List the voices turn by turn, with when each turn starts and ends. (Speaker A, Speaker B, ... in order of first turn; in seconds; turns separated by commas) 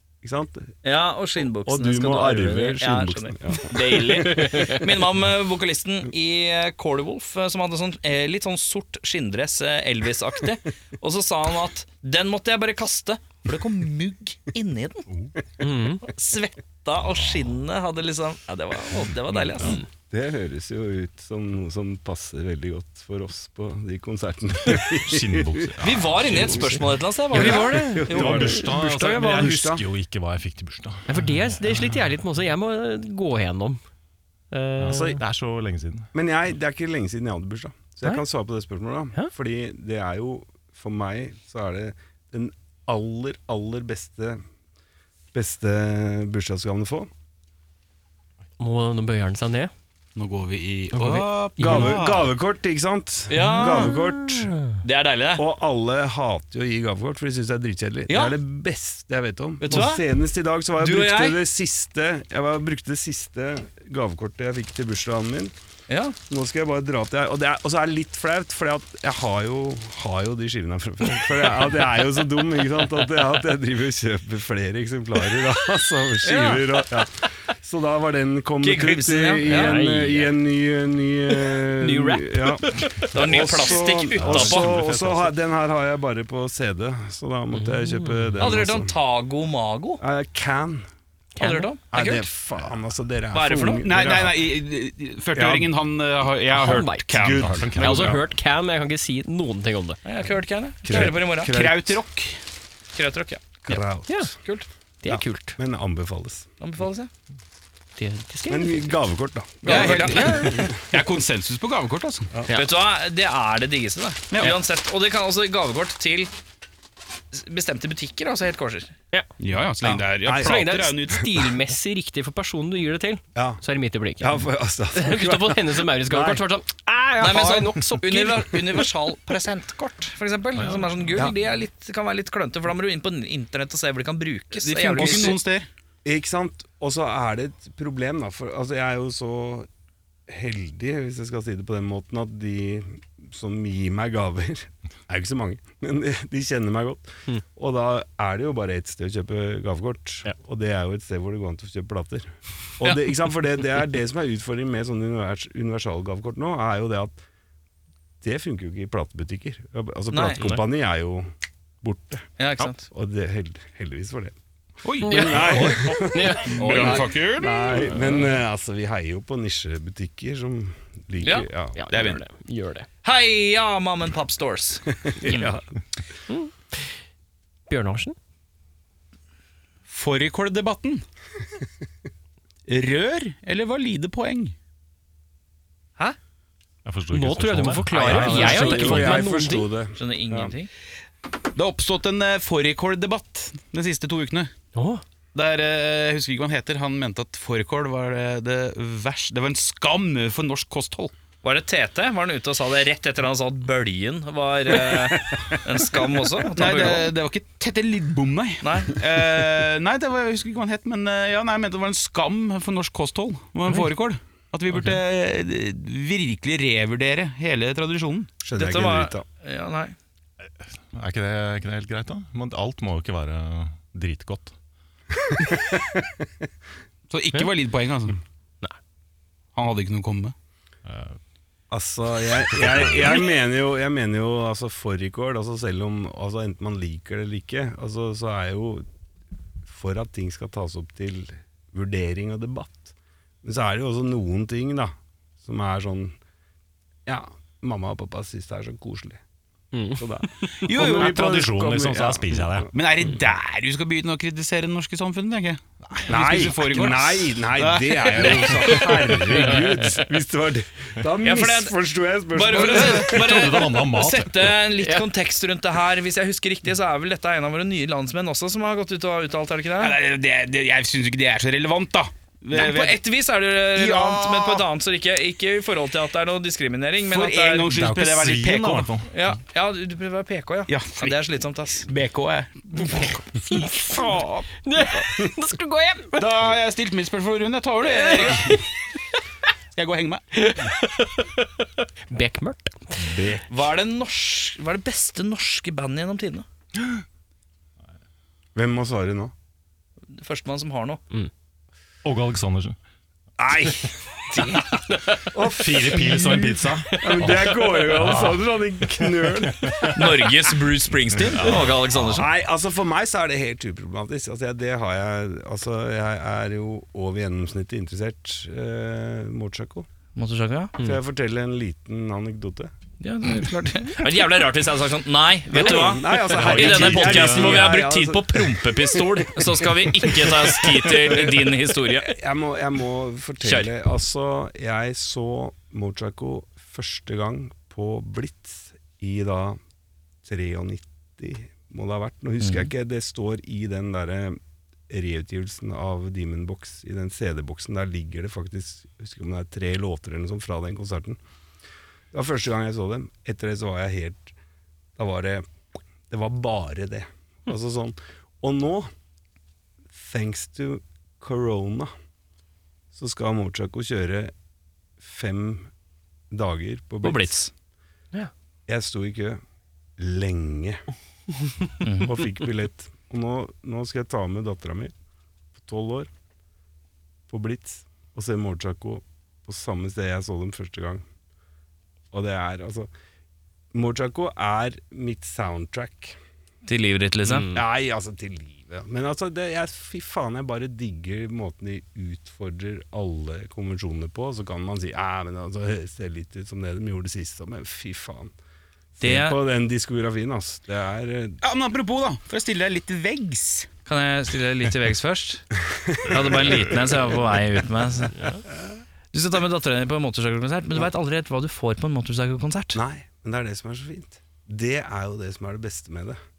Speaker A: 0.2-0.7, Speaker B: 0.8-15.1, Speaker A: 1.6-4.6, Speaker C: 15.6-16.0, Speaker B: 16.0-19.8, Speaker D: 17.0-17.6, Speaker A: 19.6-29.8, Speaker D: 24.7-26.9, Speaker B: 25.8-28.4, Speaker C: 27.3-29.5, Speaker D: 27.5-32.0, Speaker C: 31.1-33.8, Speaker C: 34.5-35.2, Speaker D: 34.8-36.1, Speaker A: 36.1-44.4, Speaker A: 45.3-47.1, Speaker C: 48.6-49.7, Speaker E: 50.1-52.3, Speaker C: 50.9-52.0, Speaker A: 51.6-54.6, Speaker B: 53.3-54.1, Speaker C: 53.5-53.8, Speaker B: 54.8-55.4, Speaker A: 55.4-65.5, Speaker B: 58.1-58.4, Speaker B: 59.6-60.0, Speaker B: 60.8-61.4, Speaker B: 65.9-66.2, Speaker A: 66.3-88.9, Speaker B: 76.2-76.8, Speaker B: 78.6-79.8, Speaker C: 79.5-80.3, Speaker C: 81.8-83.0, Speaker B: 82.8-84.8, Speaker D: 84.1-85.3, Speaker C: 87.5-88.3, Speaker B: 88.4-90.0, Speaker A: 90.0-90.8, Speaker C: 91.3-91.7, Speaker B: 91.4-92.3, Speaker A: 91.9-94.4, Speaker B: 93.3-93.9, Speaker E: 93.8-98.1, Speaker A: 95.3-95.7, Speaker C: 96.5-97.2, Speaker A: 97.1-98.1, Speaker D: 97.3-98.2, Speaker C: 97.8-100.0, Speaker B: 100.0-101.5, Speaker A: 100.8-102.0, Speaker E: 100.9-102.4, Speaker B: 102.9-103.8, Speaker A: 103.6-104.4, Speaker C: 104.1-104.3, Speaker C: 105.0-105.6, Speaker A: 105.1-106.5, Speaker B: 106.6-107.1, Speaker C: 108.0-109.0, Speaker A: 108.5-110.7, Speaker B: 109.6-110.7, Speaker E: 109.6-112.3, Speaker B: 112.5-116.3, Speaker E: 114.3-114.6, Speaker B: 117.3-118.9, Speaker E: 119.4-121.3, Speaker A: 119.8-120.6, Speaker C: 120.3-124.4, Speaker A: 123.3-123.6, Speaker A: 124.2-126.4, Speaker C: 124.9-128.8, Speaker B: 127.2-135.4, Speaker D: 130.6-130.9, Speaker E: 134.5-135.7, Speaker A: 136.0-139.7, Speaker A: 140.3-157.2, Speaker B: 152.8-153.1, Speaker A: 158.2-161.3, Speaker B: 160.1-160.6, Speaker A: 161.8-162.2, Speaker B: 162.4-162.8, Speaker A: 162.9-164.3, Speaker E: 164.8-168.2, Speaker C: 165.0-167.1, Speaker A: 165.1-172.1, Speaker B: 171.2-171.5, Speaker C: 171.8-172.9, Speaker E: 171.9-172.2, Speaker B: 173.0-175.5, Speaker A: 175.1-175.6, Speaker C: 176.3-176.8, Speaker C: 177.7-178.2, Speaker E: 179.9-181.0, Speaker E: 182.7-184.6, Speaker D: 186.8-189.3, Speaker C: 187.1-189.7, Speaker A: 187.9-190.5, Speaker B: 190.0-190.7, Speaker E: 191.5-194.5, Speaker C: 194.7-195.0, Speaker E: 195.3-201.1, Speaker B: 201.4-207.1, Speaker E: 206.5-218.3, Speaker B: 208.6-209.0, Speaker A: 218.4-219.2, Speaker B: 218.6-219.9, Speaker D: 220.6-224.5, Speaker A: 225.4-226.0, Speaker E: 227.1-228.2, Speaker E: 229.5-230.3, Speaker D: 230.8-231.2, Speaker A: 231.7-238.8, Speaker D: 232.6-233.2, Speaker A: 239.7-246.2, Speaker A: 247.1-249.2, Speaker C: 249.7-250.0, Speaker A: 249.9-252.7, Speaker E: 250.6-251.2, Speaker D: 250.7-252.7, Speaker E: 252.7-259.5, Speaker A: 256.1-263.5, Speaker B: 261.2-261.7, Speaker B: 262.3-269.9, Speaker E: 262.5-263.1, Speaker D: 263.1-264.6, Speaker E: 269.8-273.0, Speaker B: 272.5-277.7, Speaker E: 273.7-274.6, Speaker E: 277.0-278.9, Speaker D: 277.7-279.1, Speaker B: 279.1-281.9, Speaker E: 280.7-281.2, Speaker E: 281.8-283.2, Speaker C: 282.8-286.2, Speaker E: 286.1-288.6, Speaker B: 288.1-288.3, Speaker C: 288.2-288.6, Speaker E: 289.7-290.2, Speaker C: 290.3-291.5, Speaker C: 292.1-293.0, Speaker A: 293.0-293.4, Speaker B: 293.5-296.4, Speaker A: 298.5-299.3, Speaker B: 300.1-301.0, Speaker D: 302.0-302.8, Speaker A: 303.4-304.6, Speaker B: 304.3-304.7, Speaker A: 305.2-310.4, Speaker D: 305.5-308.5, Speaker D: 309.3-310.0, Speaker B: 309.8-312.3, Speaker D: 311.2-312.1, Speaker A: 312.0-319.9, Speaker B: 320.1-320.7, Speaker A: 320.8-322.7, Speaker B: 323.0-332.1, Speaker A: 325.5-339.6, Speaker D: 326.2-327.8, Speaker B: 333.4-333.7, Speaker A: 340.2-351.2, Speaker B: 342.4-342.7, Speaker A: 352.1-354.3, Speaker A: 355.0-355.4, Speaker A: 356.1-358.9, Speaker A: 359.9-361.9, Speaker A: 362.9-364.3, Speaker A: 365.0-365.7, Speaker A: 366.3-367.4, Speaker B: 367.0-367.5, Speaker A: 368.7-369.4, Speaker A: 370.0-370.8, Speaker B: 371.8-372.2, Speaker A: 372.0-374.9, Speaker A: 375.6-376.1, Speaker A: 377.3-381.0, Speaker A: 382.1-382.9, Speaker A: 383.7-386.1, Speaker B: 386.6-387.5, Speaker C: 387.3-387.6, Speaker A: 387.5-398.3, Speaker A: 399.0-401.4, Speaker B: 399.0-399.4, Speaker E: 401.4-403.7, Speaker B: 403.9-408.2, Speaker A: 405.7-406.6, Speaker B: 409.1-412.8, Speaker A: 412.7-416.2